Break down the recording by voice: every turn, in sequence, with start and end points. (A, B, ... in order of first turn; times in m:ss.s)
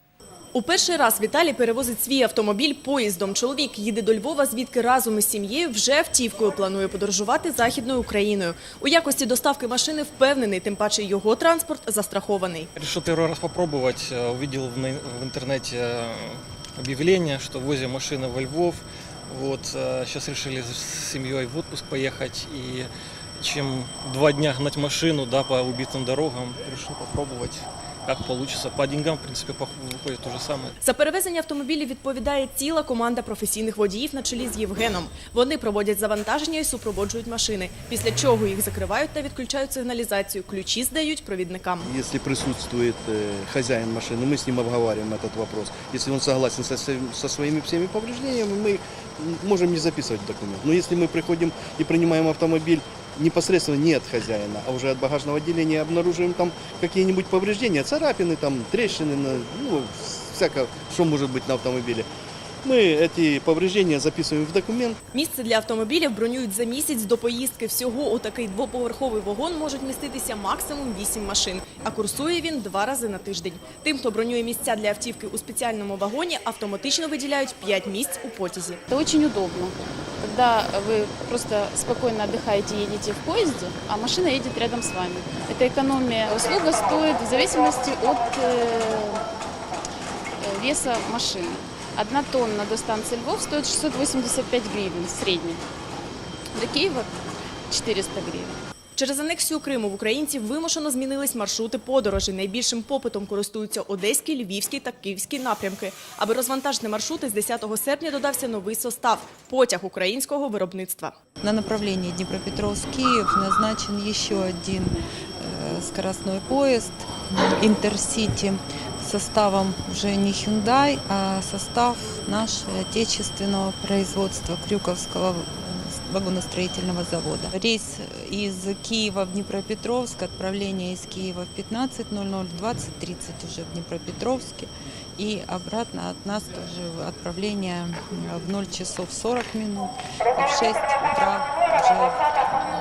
0:00.5-0:12.7 A
0:12.8-0:30.7 B
0:30.8-0:41.9 A
0:41.8-1:02.1 C
1:02.6-1:05.0 C
1:05.1-1:18.8 A
1:18.9-1:29.2 D
1:30.4-1:35.6 D
1:36.5-1:37.1 D
1:37.7-1:38.6 D
1:39.0-1:51.1 A
1:51.4-2:22.6 E